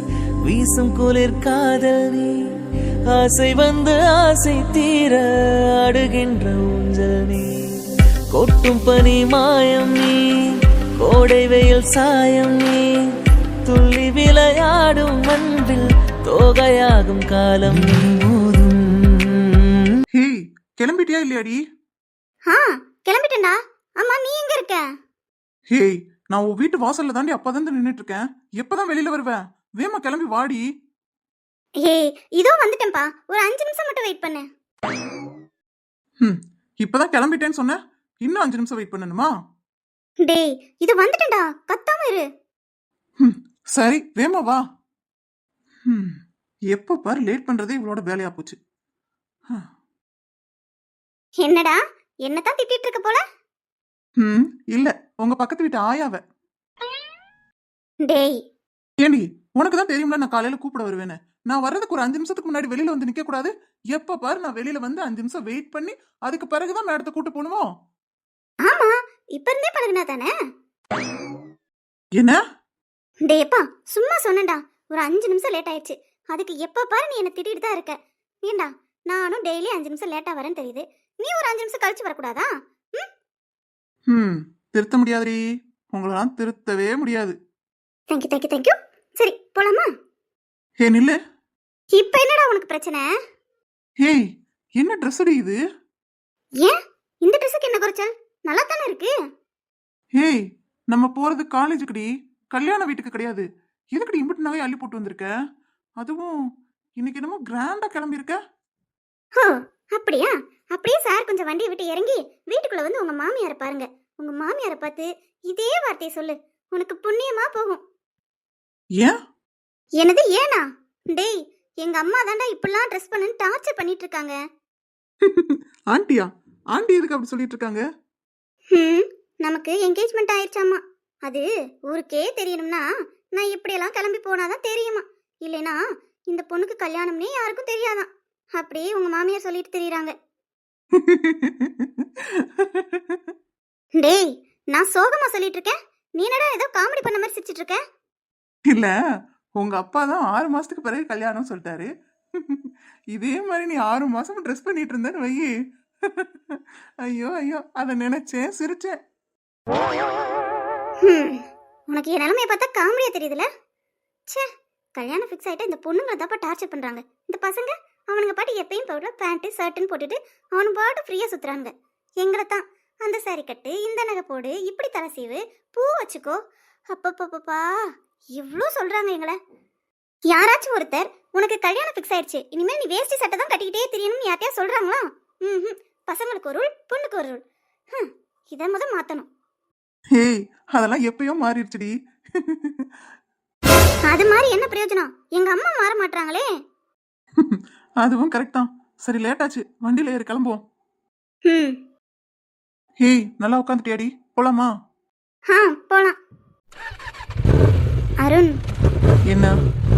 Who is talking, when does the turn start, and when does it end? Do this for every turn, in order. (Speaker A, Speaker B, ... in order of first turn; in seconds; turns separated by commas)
Speaker A: 0.4-2.3, Speaker A: 3.1-5.2, Speaker A: 5.8-7.5, Speaker A: 8.3-10.2, Speaker A: 11.0-12.8, Speaker A: 13.7-19.2, Speaker B: 20.1-21.6, Speaker C: 22.5-24.8, Speaker B: 25.7-30.6, Speaker C: 31.8-34.4, Speaker B: 36.2-39.3, Speaker C: 40.2-42.2, Speaker B: 43.2-44.6, Speaker B: 45.9-46.2, Speaker B: 46.7-48.6, Speaker C: 51.4-53.2, Speaker B: 54.2-56.2, Speaker C: 58.1-58.4, Speaker B: 59.0-67.7, Speaker C: 68.6-70.3, Speaker C: 73.3-83.1, Speaker B: 84.1-85.4, Speaker B: 85.9-87.4, Speaker C: 88.1-89.9, Speaker B: 90.8-91.2, Speaker C: 91.9-93.0, Speaker B: 94.0-94.3, Speaker B: 94.8-95.6, Speaker C: 96.6-99.1, Speaker B: 100.2-105.3, Speaker B: 106.0-106.3, Speaker B: 107.0-108.4, Speaker C: 109.4-117.8, Speaker C: 120.0-124.3, Speaker B: 125.2-127.8, Speaker C: 128.7-132.8, Speaker C: 133.3-135.8, Speaker C: 136.3-140.1, Speaker B: 140.9-143.2, Speaker C: 144.0-147.8, Speaker B: 149.6-155.5, Speaker B: 156.1-159.0, Speaker C: 161.0-163.4, Speaker C: 164.3-177.7, Speaker C: 178.3-179.4, Speaker C: 180.3-187.4, Speaker C: 187.9-189.3, Speaker B: 190.2-192.9, Speaker C: 194.1-196.5, Speaker B: 197.4-200.6, Speaker C: 201.5-201.8, Speaker B: 203.0-204.7, Speaker C: 205.5-206.2, Speaker C: 208.2-208.5